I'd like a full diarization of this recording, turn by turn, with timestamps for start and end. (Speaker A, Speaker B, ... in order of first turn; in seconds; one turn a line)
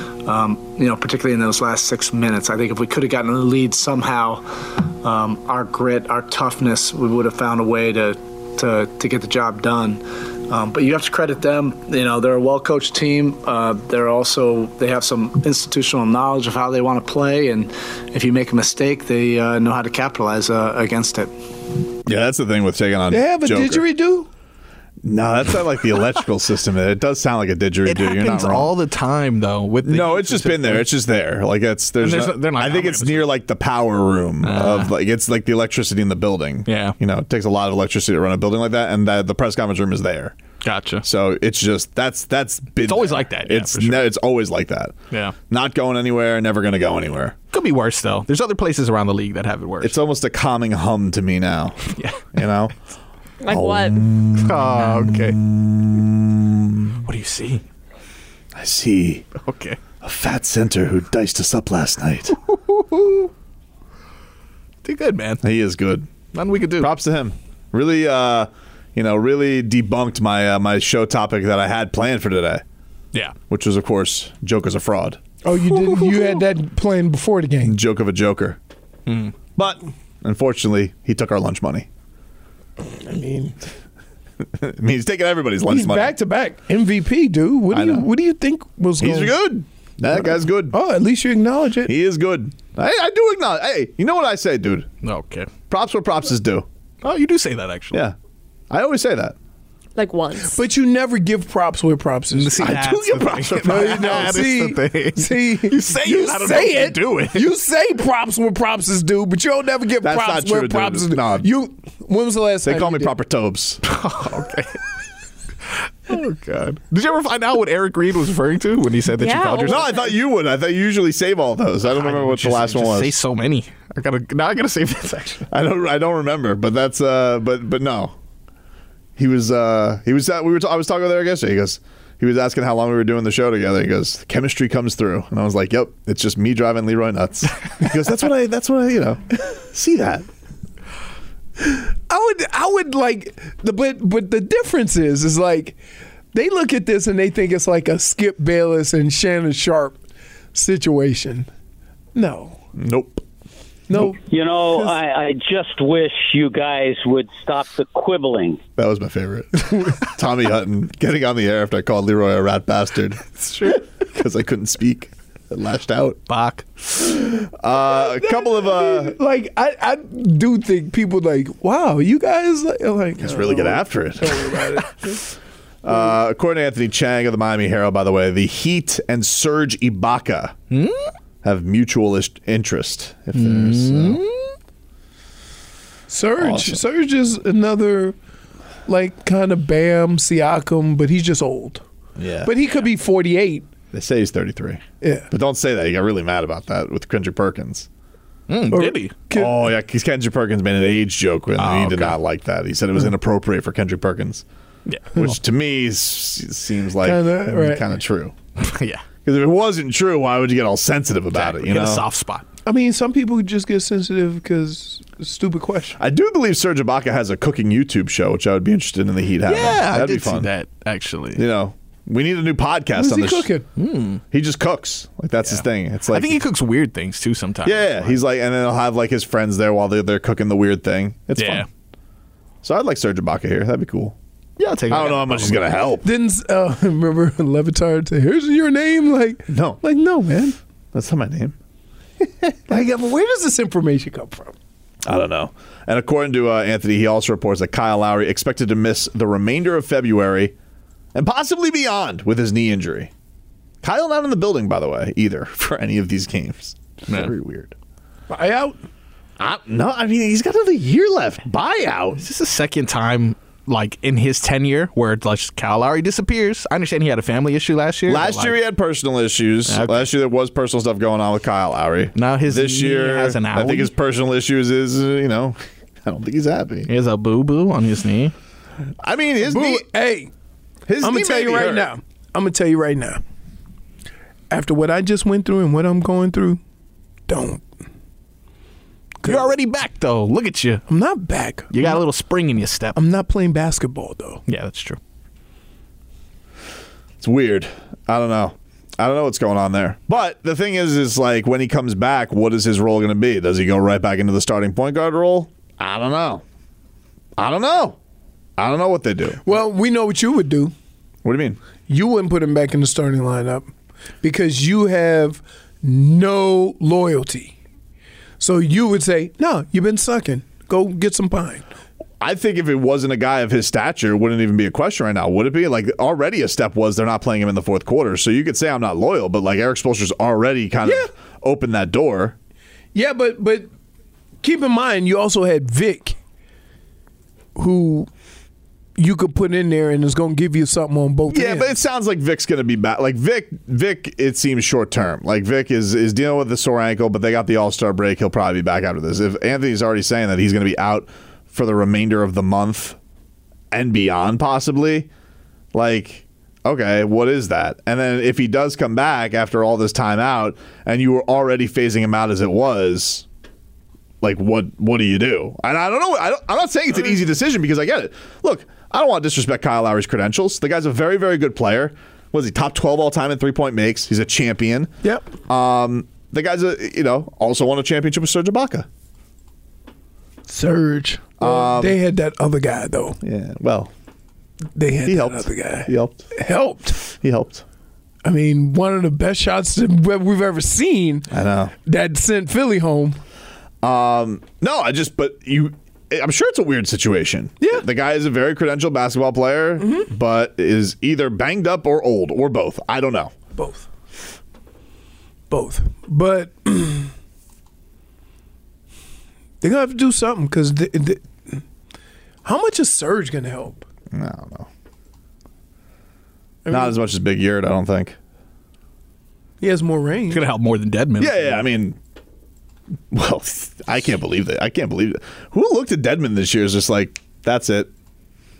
Speaker A: 0.2-21.3
Speaker B: 22.1-23.9
Speaker C: 23.1-24.3
Speaker B: 25.0-28.7
Speaker D: 27.9-30.9
Speaker B: 29.8-40.4
Speaker D: 32.0-33.3
Speaker D: 34.4-35.0
Speaker D: 36.7-37.0
Speaker D: 40.6-41.0
Speaker B: 41.0-45.0
Speaker D: 42.8-44.1
Speaker B: 45.5-47.4
Speaker D: 47.5-50.0
Speaker B: 49.8-52.8
Speaker D: 51.9-52.2
Speaker E: 53.4-54.0
Speaker B: 53.5-57.0
Speaker D: 54.4-55.4
Speaker D: 57.0-57.6
Speaker B: 58.5-59.3
Speaker D: 59.4-59.8
Speaker B: 60.0-62.4
Speaker D: 62.5-63.3
Speaker D: 64.8-65.4
Speaker B: 65.4-66.1
Speaker D: 66.3-66.9
Speaker B: 66.8-72.6
Speaker B: 73.5-75.2
Speaker C: 75.4-77.8
Speaker B: 77.6-78.6
Speaker D: 79.1-79.3
Speaker B: 79.6-81.9
Speaker C: 82.8-83.6
Speaker B: 84.6-86.1
Speaker C: 85.7-89.4
Speaker B: 87.7-88.1
Speaker B: 89.0-90.8
Speaker C: 90.1-91.9
Speaker B: 91.8-94.9
Speaker D: 95.0-95.5
Speaker B: 95.7-96.7
Speaker D: 97.0-98.0
Speaker B: 98.7-99.4
Speaker E: 100.0-100.6
Speaker C: 100.4-102.7
Speaker D: 102.3-107.5
Speaker B: 102.6-104.5
Speaker C: 103.6-113.2
Speaker B: 110.0-111.5
Speaker B: 112.7-113.8
Speaker D: 113.9-114.8
Speaker D: 116.1-119.9
Speaker E: 119.2-120.2
Speaker B: 119.6-123.2
Speaker D: 121.9-125.5
Speaker B: 125.5-128.2
Speaker B: 129.2-140.3
Speaker C: 141.6-145.8
Speaker C: 146.3-150.0
Speaker C: 150.5-151.5
Speaker C: 152.2-152.6
Speaker B: 152.8-153.2
Speaker C: 153.9-154.2
Speaker F: 154.2-158.6
Speaker B: 158.8-166.2
Speaker D: 163.4-163.8
Speaker D: 166.3-166.7
Speaker B: 167.0-169.2
Speaker C: 167.8-175.2
Speaker B: 173.2-174.6
Speaker B: 175.8-180.6
Speaker D: 180.7-181.1
Speaker B: 181.4-184.2
Speaker D: 183.3-184.5
Speaker C: 186.1-188.2
Speaker B: 186.4-186.8
Speaker C: 188.9-191.8
Speaker B: 192.2-192.6
Speaker C: 192.4-193.7
Speaker B: 193.9-197.9
Speaker C: 195.0-195.3
Speaker D: 198.5-199.1
Speaker C: 198.7-199.7
Speaker B: 199.3-204.4
Speaker D: 201.6-202.2
Speaker D: 204.9-205.2
Speaker B: 205.1-208.3
Speaker C: 207.0-207.9
Speaker D: 208.6-209.0
Speaker B: 209.2-212.1
Speaker D: 211.3-212.5
Speaker C: 212.7-216.0
Speaker B: 216.0-220.5
Speaker D: 219.5-221.4
Speaker B: 221.3-223.5
Speaker C: 223.0-223.7
Speaker D: 223.8-224.2
Speaker B: 224.3-226.4
Speaker D: 225.4-228.2
Speaker B: 227.6-231.7
Speaker D: 231.4-231.7
Speaker B: 232.6-234.2
Speaker D: 234.6-235.7
Speaker B: 234.9-236.1
Speaker C: 236.0-240.6
Speaker B: 239.5-239.8
Speaker B: 240.9-241.6
Speaker C: 242.7-244.5
Speaker B: 245.0-250.5
Speaker B: 251.2-253.1
Speaker B: 253.8-257.7
Speaker C: 258.3-258.8
Speaker B: 259.4-262.2
Speaker D: 262.2-268.6
Speaker B: 268.1-276.9
Speaker D: 269.7-270.1
Speaker D: 272.2-273.9
Speaker D: 276.9-278.3
Speaker B: 279.0-279.9
Speaker C: 279.4-280.3
Speaker B: 280.9-281.9
Speaker C: 281.0-283.2
Speaker C: 284.5-286.6
Speaker C: 287.3-287.7
Speaker C: 289.2-289.5
Speaker D: 289.2-290.9
Speaker C: 290.9-292.0
Speaker D: 291.7-293.0
Speaker C: 292.9-294.4
Speaker D: 294.5-295.0
Speaker B: 297.2-306.4
Speaker B: 307.4-308.0
Speaker B: 308.6-309.4
Speaker C: 309.4-310.7
Speaker B: 311.2-311.6
Speaker C: 311.9-313.7
Speaker C: 314.2-317.6
Speaker C: 318.4-321.7
Speaker B: 322.2-332.4
Speaker C: 330.8-331.1
Speaker C: 332.9-333.7
Speaker C: 334.4-336.2
Speaker C: 337.6-338.1
Speaker C: 339.0-341.8
Speaker B: 341.3-353.0
Speaker B: 353.7-355.1
Speaker B: 355.7-363.3
Speaker B: 364.2-374.9
Speaker B: 375.5-378.9
Speaker C: 380.5-383.2
Speaker B: 381.4-382.0
Speaker B: 383.2-383.9
Speaker C: 384.8-387.0
Speaker B: 385.1-386.3
Speaker B: 387.1-387.6
Speaker C: 388.2-391.3
Speaker B: 391.3-391.7
Speaker C: 391.9-393.2
Speaker B: 393.8-403.3
Speaker C: 399.8-400.1
Speaker C: 403.6-403.9
Speaker C: 405.5-407.1
Speaker C: 409.6-411.6
Speaker C: 412.4-413.8
Speaker B: 414.1-414.7
Speaker C: 416.6-417.0
Speaker B: 416.7-418.2
Speaker C: 419.6-420.4
Speaker D: 420.3-421.6
Speaker B: 421.2-422.0
Speaker B: 423.1-427.9